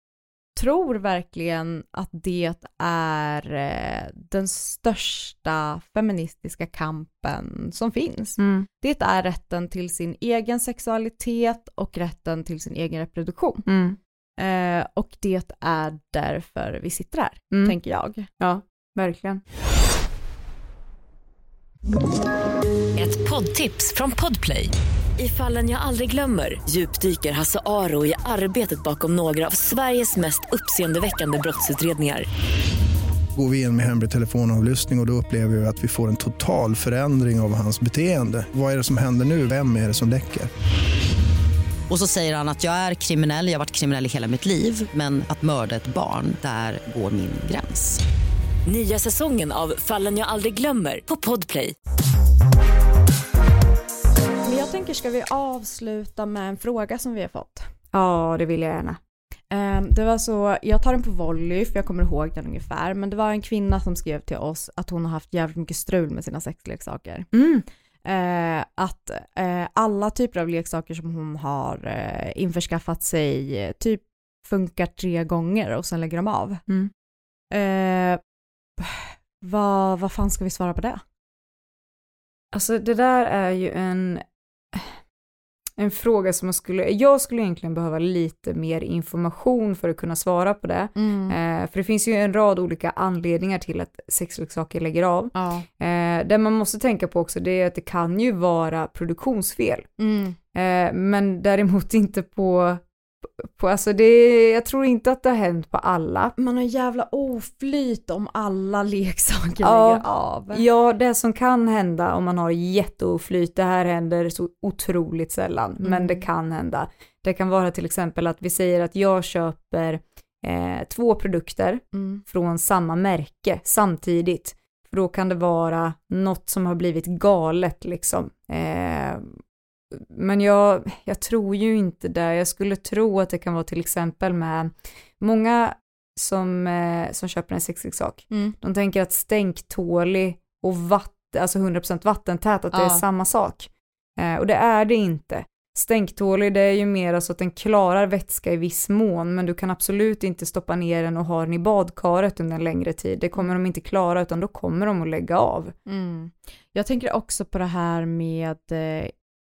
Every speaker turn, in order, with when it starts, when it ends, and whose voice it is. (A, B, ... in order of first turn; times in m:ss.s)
0:00.5-0:13.6 A
0:08.4-0:08.7 B
0:13.6-0:14.0 B
0:14.4-0:18.3 A
0:18.4-0:19.4 B
0:23.0-0:32.2 C
0:33.4-0:40.5 D
0:41.9-0:48.0 E
0:48.6-0:51.7 C
0:54.4-0:57.7 A
0:57.9-0:59.0 B
0:59.5-1:07.3 A
1:07.3-1:07.6 B
1:08.0-1:16.6 A
1:17.5-1:18.2 A
1:18.8-1:21.0 A
1:22.5-1:25.0 B
1:25.8-1:39.9 B
1:31.0-1:31.4 A
1:35.3-1:35.6 A
1:40.0-1:40.4 A
1:40.5-1:46.3 B
1:46.4-1:50.6 A
1:49.6-2:09.4 B
1:55.8-1:56.2 A
2:01.9-2:02.2 A
2:09.9-2:35.7 B
2:22.7-2:23.0 A
2:35.8-2:39.1 A